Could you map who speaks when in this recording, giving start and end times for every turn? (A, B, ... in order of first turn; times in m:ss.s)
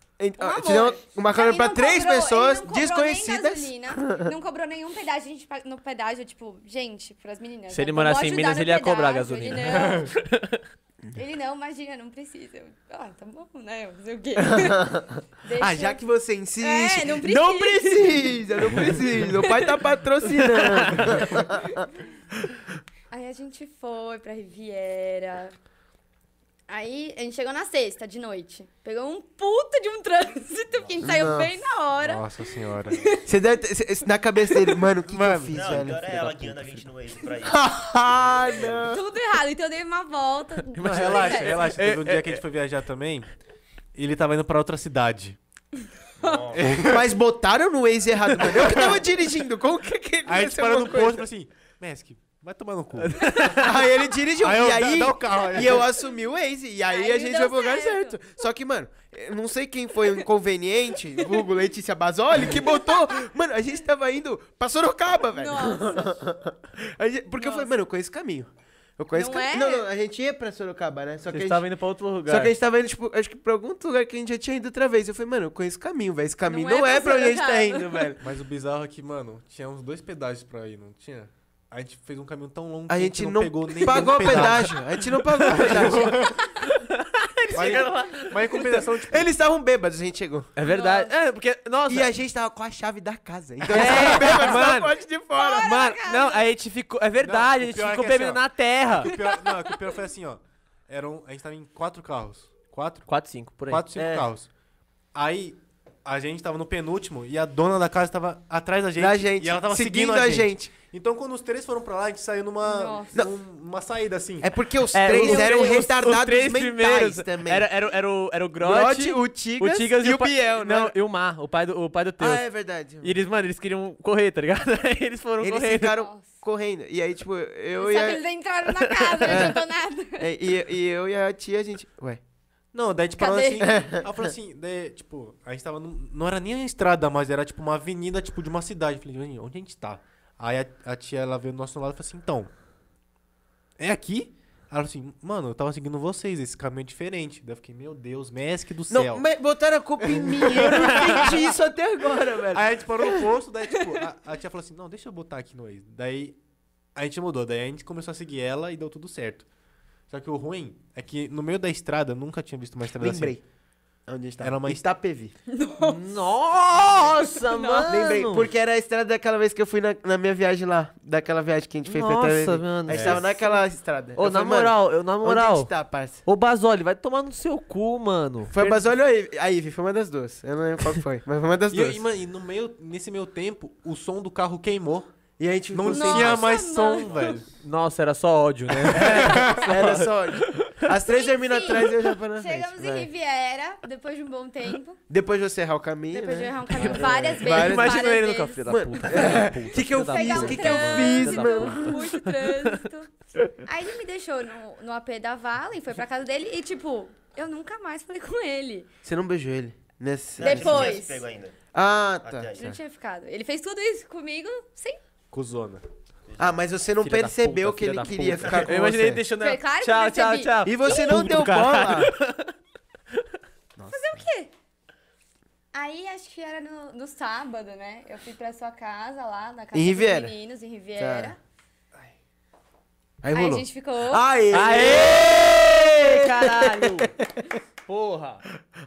0:00.2-0:04.3 A
0:00.4-0:10.1 B
0:07.7-0:10.6 C
0:09.7-0:10.1 D
0:11.1-0:16.0 B
0:14.4-0:21.8 A
0:16.6-0:18.4 B
0:19.4-0:19.7 B
0:20.2-0:21.4 C
0:21.5-0:22.0 B
0:23.1-0:25.5 B
0:26.7-0:33.2 B
0:30.7-0:31.0 E
0:31.0-0:31.5 A
0:32.0-0:33.1 D
0:33.2-0:36.0 A
0:35.0-0:36.8 D
0:35.5-0:38.9 E
0:37.4-0:39.0 A
0:38.8-0:41.6 B
0:40.8-0:42.4 C
0:40.8-0:43.3 D
0:43.9-0:45.4 D
0:46.2-0:46.8 E
0:46.5-0:47.0 D
0:46.7-0:51.3 A
0:48.4-0:49.0 D
0:50.2-0:53.4 D
0:53.0-0:53.7 C
0:53.5-1:11.6 A
0:54.4-0:55.9 D
0:56.9-0:58.2 B
1:01.2-1:01.4 B
1:02.5-1:03.3 B
1:05.3-1:06.2 B
1:07.4-1:07.7 B
1:09.1-1:09.9 B
1:11.3-1:12.5 C
1:12.2-1:18.2 A
1:16.4-1:18.1 B
1:18.2-1:26.4 D
1:22.9-1:26.3 A
1:24.2-1:24.5 C
1:26.6-1:28.8 C
1:27.5-1:29.3 D
1:27.6-1:27.9 A
1:29.0-1:30.5 A
1:30.6-1:32.1 C
1:30.6-1:31.2 B
1:31.9-1:35.7 A
1:33.7-1:34.9 C
1:33.7-1:34.4 D
1:35.4-1:36.4 B
1:35.6-1:39.1 C
1:37.2-1:43.1 D
1:39.1-1:39.9 B
1:43.1-1:43.9 C
1:43.7-1:44.5 D
1:43.9-1:44.3 A
1:45.1-1:54.5 D
1:49.0-1:50.7 A
1:52.6-1:53.2 B
1:54.4-1:57.7 A
1:54.9-2:02.4 C
1:58.6-2:00.9 A
2:02.2-2:03.2 A
2:03.0-2:06.0 C
2:05.4-2:08.2 A
2:06.0-2:06.4 B
2:07.7-2:10.3 B
2:08.7-2:09.6 C
2:09.2-2:09.6 A
2:10.2-2:12.2 A
2:12.7-2:22.5 D
2:13.2-2:13.9 B
2:13.6-2:14.0 A
2:23.8-2:29.2 D
2:28.9-2:33.2 A
2:30.1-2:31.4 D
2:30.9-2:31.2 C
2:32.5-2:36.4 D
2:36.9-2:39.4 D
2:40.1-2:43.4 D
2:43.0-2:43.4 A
2:44.1-2:45.3 A
2:44.4-2:44.8 D
2:45.5-2:46.2 B
2:45.8-2:48.5 C
2:46.9-2:48.0 B
2:47.9-2:56.2 A
2:51.9-2:53.4 C
2:52.9-2:53.2 D
2:54.2-2:55.7 C
2:56.2-2:58.7 C
2:58.5-3:02.0 A
3:01.7-3:05.1 D
3:05.4-3:06.5 A
3:05.7-3:07.5 D
3:05.9-3:07.4 B
3:07.6-3:10.8 C
3:08.8-3:09.7 D
3:09.0-3:13.1 A
3:11.1-3:15.0 B
3:15.1-3:18.1 A
3:16.1-3:19.4 B
3:16.7-3:22.8 C
3:18.6-3:22.0 A
3:19.9-3:23.1 B
3:23.6-3:28.9 B
3:29.0-3:31.0 A
3:30.4-3:31.6 E
3:30.4-3:31.2 B
3:31.7-3:32.8 A
3:32.2-3:32.8 E
3:32.6-3:35.0 B
3:35.3-3:35.8 D
3:36.2-3:36.6 E
3:36.4-3:39.2 A
3:37.0-3:42.5 C
3:38.2-3:38.8 E
3:39.4-3:41.1 B
3:40.6-3:42.1 A
3:43.8-3:44.2 A
3:43.9-3:44.5 B
3:45.7-3:51.4 B
3:49.7-3:50.3 A
3:51.0-3:51.3 A
3:53.2-3:57.4 A
3:53.3-3:54.2 B
3:54.5-3:57.1 C
3:57.8-3:58.4 C